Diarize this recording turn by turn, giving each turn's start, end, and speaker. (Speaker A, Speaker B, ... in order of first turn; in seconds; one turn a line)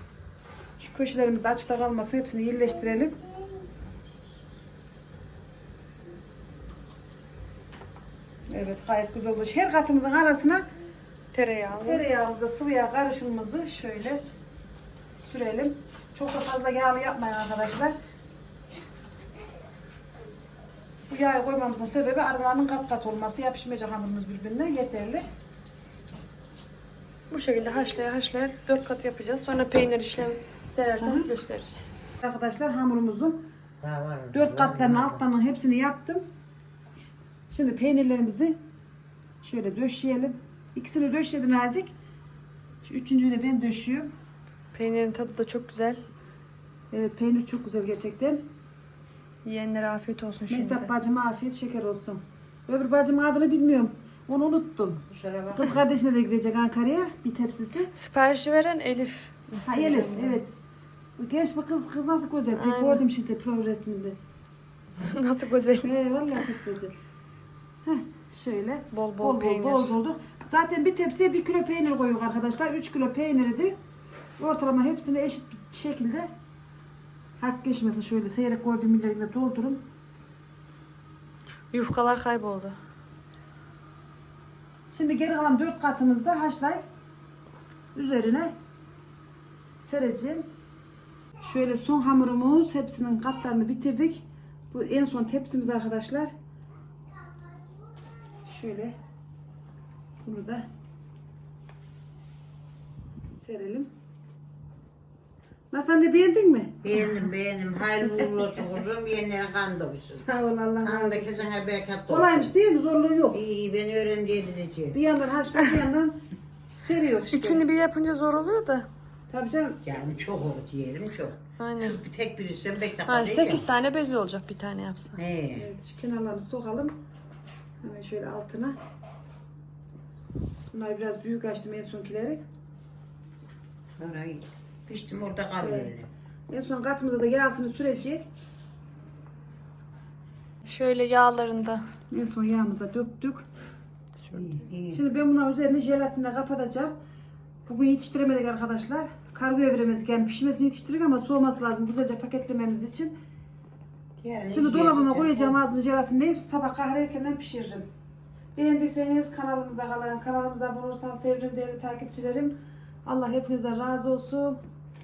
Speaker A: 0.8-3.2
Speaker A: 8.5-10.6
Speaker B: 11.3-12.1
Speaker A: 11.8-14.2
Speaker A: 15.2-17.9
Speaker A: 21.1-25.2
Speaker B: 27.3-31.9
Speaker A: 31.0-31.3
Speaker A: 32.2-33.4
Speaker C: 33.8-35.2
Speaker A: 34.3-36.2
Speaker A: 37.5-38.6
Speaker A: 39.4-41.9
Speaker A: 42.8-44.1
Speaker B: 44.7-46.0
Speaker A: 46.9-48.4
Speaker B: 49.5-50.9
Speaker A: 50.5-55.0
Speaker C: 55.1-55.8
Speaker A: 55.5-57.9
Speaker B: 58.0-60.4
Speaker A: 59.6-60.5
Speaker A: 61.2-64.2
Speaker B: 62.5-63.0
Speaker B: 65.0-65.9
Speaker A: 65.8-66.9
Speaker A: 67.8-73.8
Speaker B: 68.9-69.9
Speaker A: 74.4-76.3
Speaker A: 77.4-79.8
Speaker B: 81.7-82.8
Speaker A: 84.9-86.8
Speaker A: 88.0-88.5
Speaker A: 89.8-90.5
Speaker A: 91.4-96.3
Speaker A: 98.5-99.0
Speaker A: 100.2-100.7
Speaker A: 103.3-103.9
Speaker A: 105.7-106.9
Speaker C: 106.8-110.2
Speaker A: 110.0-111.5
Speaker C: 110.8-112.5
Speaker A: 112.1-113.4
Speaker C: 113.3-115.0
Speaker A: 114.9-116.2
Speaker A: 116.8-117.6
Speaker B: 117.3-118.9
Speaker A: 119.3-119.8
Speaker C: 119.8-123.6
Speaker B: 121.6-122.0
Speaker B: 123.1-125.2
Speaker C: 125.2-125.7
Speaker A: 125.6-127.0
Speaker A: 127.8-128.8
Speaker A: 130.7-132.4
Speaker C: 134.0-136.1
Speaker A: 135.6-135.9
Speaker A: 136.5-138.3
Speaker B: 140.6-141.8
Speaker A: 142.1-143.5
Speaker B: 144.2-144.5
Speaker C: 144.3-145.0
Speaker A: 144.9-146.9
Speaker A: 147.7-153.2
Speaker C: 154.2-155.6
Speaker A: 154.5-157.9
Speaker A: 158.6-164.6